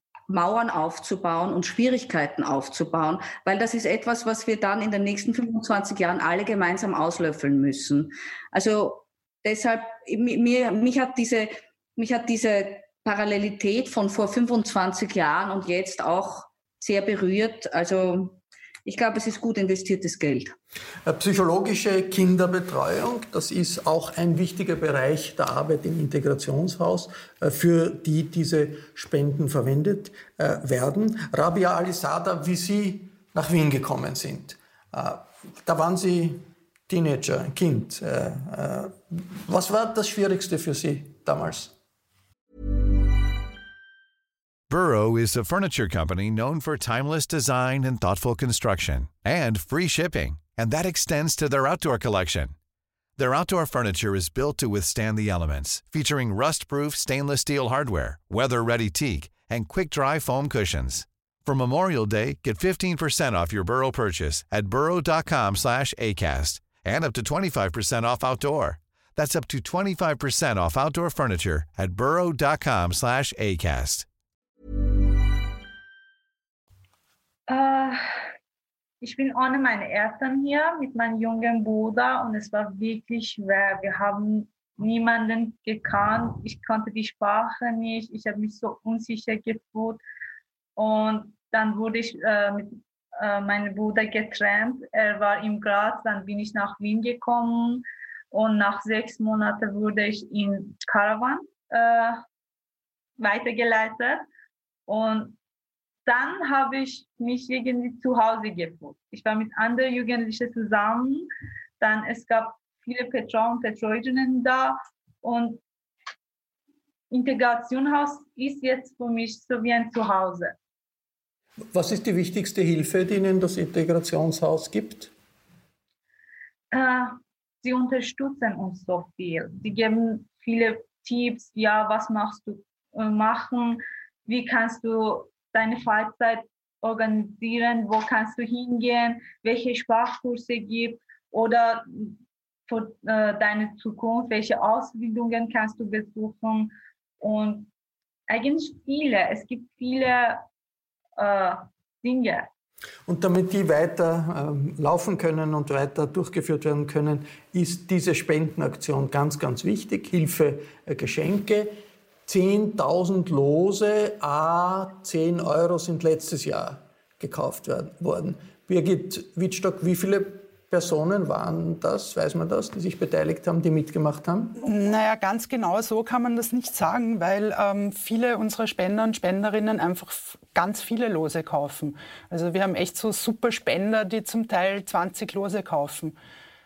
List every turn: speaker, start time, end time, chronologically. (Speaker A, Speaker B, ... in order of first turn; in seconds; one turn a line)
Speaker A: 0.3-20.5
Speaker B: 21.0-41.7
Speaker C: 44.7-52.5
Speaker C: 53.2-74.1
Speaker D: 77.5-78.0
Speaker D: 79.0-90.0
Speaker D: 90.8-102.2
Speaker D: 103.2-104.2
Speaker D: 104.9-105.4
Speaker D: 106.0-111.3
Speaker D: 111.8-115.6
Speaker D: 117.1-120.5
Speaker B: 121.7-125.1
Speaker D: 126.7-147.7
Speaker D: 148.3-150.4
Speaker D: 151.2-152.5
Speaker B: 153.1-174.7
Speaker E: 174.6-186.1